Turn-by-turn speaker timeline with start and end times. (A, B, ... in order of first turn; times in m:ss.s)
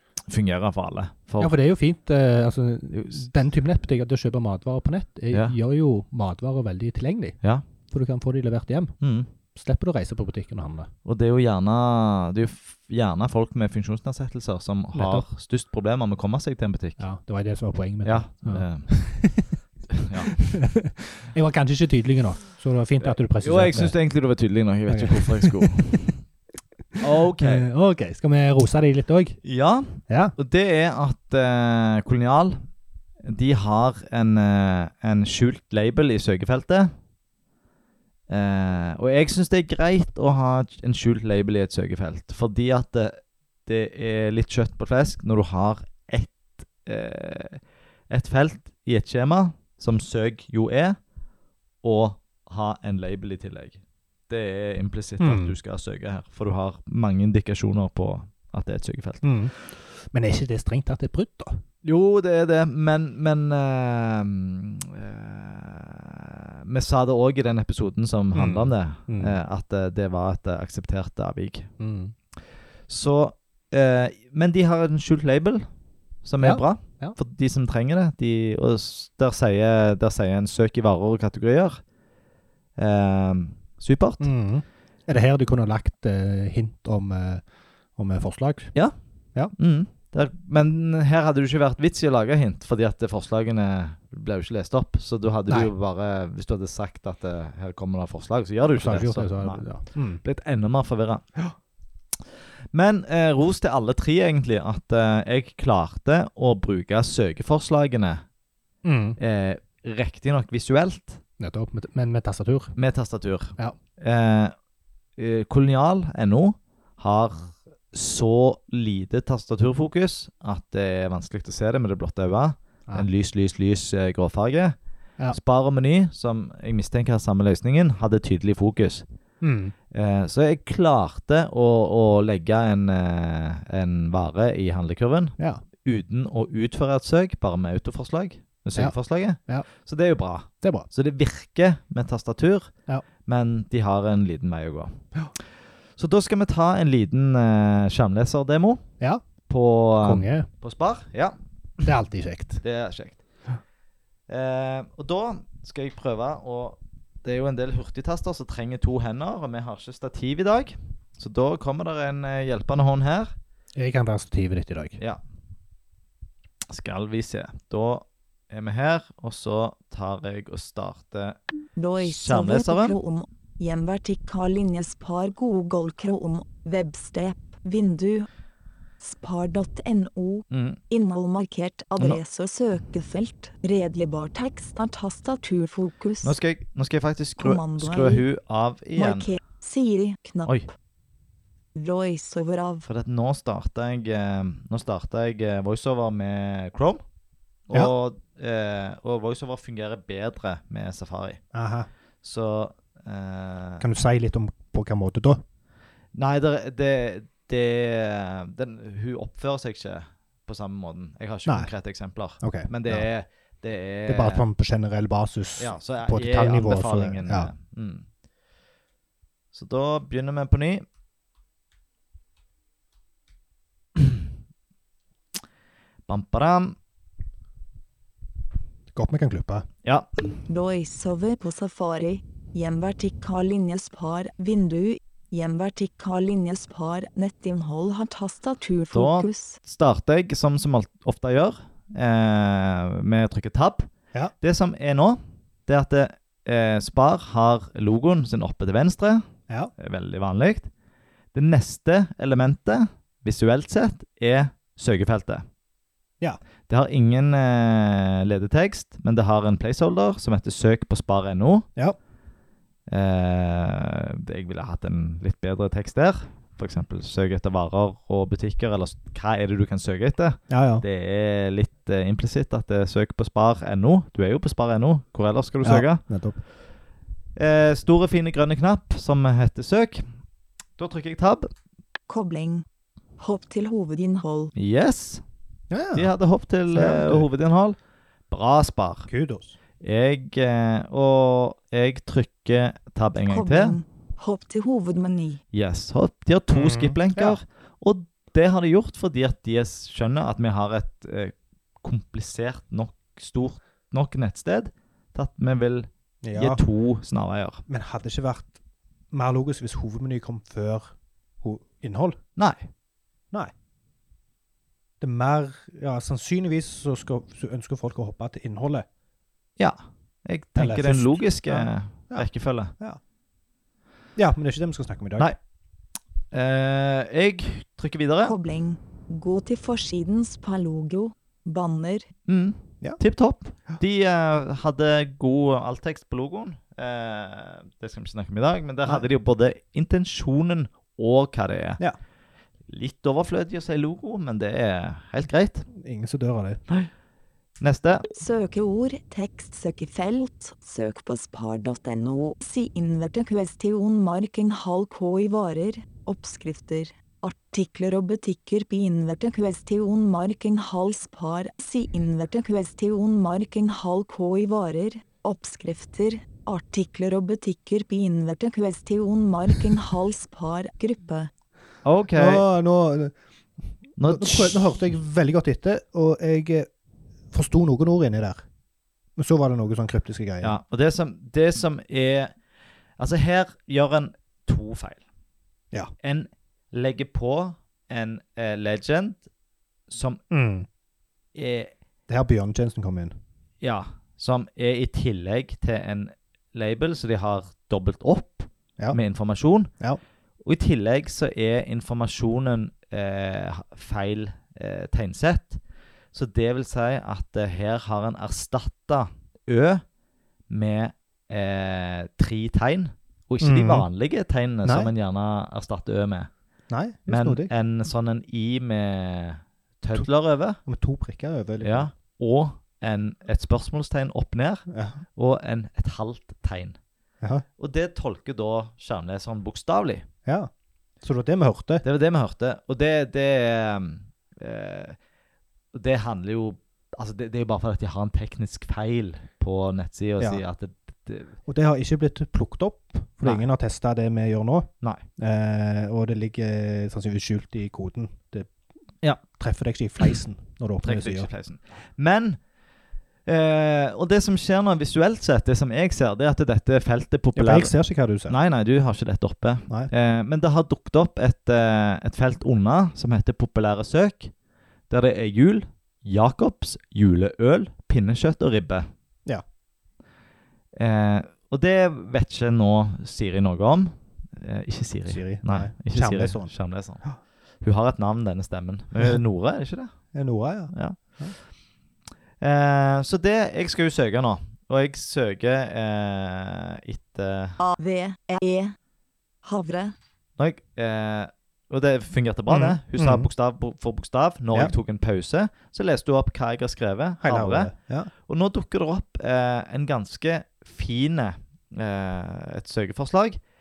0:00.3-0:01.5 A
0:01.4-0:07.4 B
0:05.3-0:05.6 A
0:07.9-0:08.9 B
0:09.0-0:09.3 A
0:09.5-0:10.9 B
0:11.0-0:17.0 A
0:14.9-0:15.2 B
0:17.0-0:19.5 B
0:18.0-0:18.9 A
0:19.9-0:20.3 A
0:20.3-0:23.9 B
0:23.0-0:26.2 A
0:24.9-0:26.0 B
0:27.0-0:27.6 A
0:27.4-0:29.4 B
0:29.4-0:32.6 A
0:30.1-0:30.3 B
0:33.2-0:36.9 A
0:38.3-0:51.0 A
0:51.8-0:59.3 A
0:55.2-0:55.5 B
0:59.2-1:01.6 B
1:01.8-1:11.7 A
1:08.3-1:09.4 B
1:11.8-1:12.1 B
1:12.9-1:15.6 A
1:16.2-1:21.8 A
1:16.4-1:17.2 B
1:22.8-1:24.3 A
1:24.2-1:27.4 B
1:28.0-1:28.7 B
1:29.6-1:39.6 A
1:38.8-1:40.2 B
1:40.2-1:41.2 A
1:42.7-1:48.2 A
1:48.8-1:49.2 B
1:49.2-1:51.2 A
1:51.4-1:52.7 B
1:52.8-1:54.5 A
1:55.2-2:04.8 A
2:05.3-2:09.0 A
2:09.4-2:09.7 B
2:09.9-2:22.7 A
2:20.6-2:20.9 B
2:23.2-2:25.0 A
2:26.0-2:28.8 A
2:29.5-2:31.4 A
2:30.0-2:30.5 B
2:31.8-2:32.6 B
2:32.6-2:33.2 A
2:34.3-2:43.3 A
2:43.8-2:45.0 B
2:46.7-2:51.4 A
2:51.8-2:58.3 C
2:52.0-2:53.0 A
2:59.0-3:06.4 C
3:00.5-3:00.8 A
3:06.2-3:09.3 A
3:07.4-3:08.2 C
3:09.0-3:10.6 C
3:11.7-3:12.8 C
3:12.8-3:17.0 A
3:17.7-3:21.4 A
3:21.5-3:21.9 B
3:22.2-3:23.8 A
3:23.8-3:25.4 B
3:26.1-3:34.4 A
3:31.4-3:31.7 B
3:32.4-3:33.1 B
3:34.1-3:37.5 B
3:35.6-3:38.1 A
3:39.5-3:40.8 A
3:44.0-3:44.2 A
3:46.1-3:46.8 A
3:48.9-3:49.7 B
3:50.5-3:59.6 C
3:58.9-4:09.2 A
4:09.8-4:10.7 A
4:11.3-4:15.4 A
4:16.7-4:21.6 A
4:22.9-4:36.0 A
4:30.5-4:30.8 B
4:35.6-4:36.4 B
4:37.4-4:40.0 A
4:40.8-4:41.5 A
4:42.1-4:42.6 C
4:43.2-4:44.5 C
4:44.5-4:45.2 A
4:45.7-4:46.1 B
4:45.9-4:47.8 A
4:46.7-4:47.3 B
4:48.3-4:49.1 A
4:49.1-4:49.6 B
4:49.8-4:53.8 A
4:53.3-4:55.4 C
4:55.5-5:07.6 A
4:56.5-4:57.4 B
5:06.2-5:06.6 B
5:07.7-5:08.6 B
5:09.1-5:12.2 B
5:12.4-5:12.7 A
5:15.0-5:18.8 B
5:19.6-5:22.7 A
5:20.5-5:23.0 B
5:24.2-5:25.3 B
5:26.3-5:28.3 A
5:28.2-5:32.1 C
5:32.3-5:41.8 A
5:42.7-5:45.6 A
5:45.7-5:46.6 B
5:47.6-5:48.1 A
5:48.1-6:11.3 C
6:11.8-6:12.4 A
6:12.2-6:13.2 B
6:14.0-6:14.6 A
6:14.0-6:16.7 B
6:17.3-6:18.4 B
6:19.2-6:20.5 B
6:20.4-6:22.3 A
6:23.0-6:25.0 A
6:26.0-6:29.2 A
6:29.9-6:30.2 A
6:30.3-6:30.7 B
6:31.3-6:31.7 A
6:32.1-6:33.1 B
6:33.6-6:39.7 A
6:40.4-6:45.6 A
6:46.1-6:49.8 A
6:50.5-6:56.3 A
6:53.4-6:53.9 B
6:54.6-6:54.9 B
6:56.7-6:57.5 B
6:57.1-7:00.6 A
7:00.6-7:01.9 B
7:01.6-7:06.8 A
7:04.7-7:05.0 B
7:07.6-7:10.1 A
7:10.2-7:10.5 B
7:11.0-7:11.8 B
7:11.8-7:15.0 A
7:15.7-7:21.3 A
7:21.4-7:28.5 B
7:29.3-7:31.3 B
7:30.8-7:32.4 A
7:33.3-7:37.7 A
7:37.3-7:38.3 B
7:38.3-7:44.3 A
7:44.9-7:48.9 A
7:50.8-7:57.0 A
7:55.1-7:56.5 B
7:57.6-7:59.9 A
8:00.1-8:01.3 B
8:00.7-8:01.0 A
8:02.4-8:07.6 A
8:07.6-8:08.7 C
8:09.4-8:09.9 C
8:10.4-8:17.7 A
8:12.5-8:13.3 B
8:17.2-8:18.1 B
8:18.2-8:23.4 A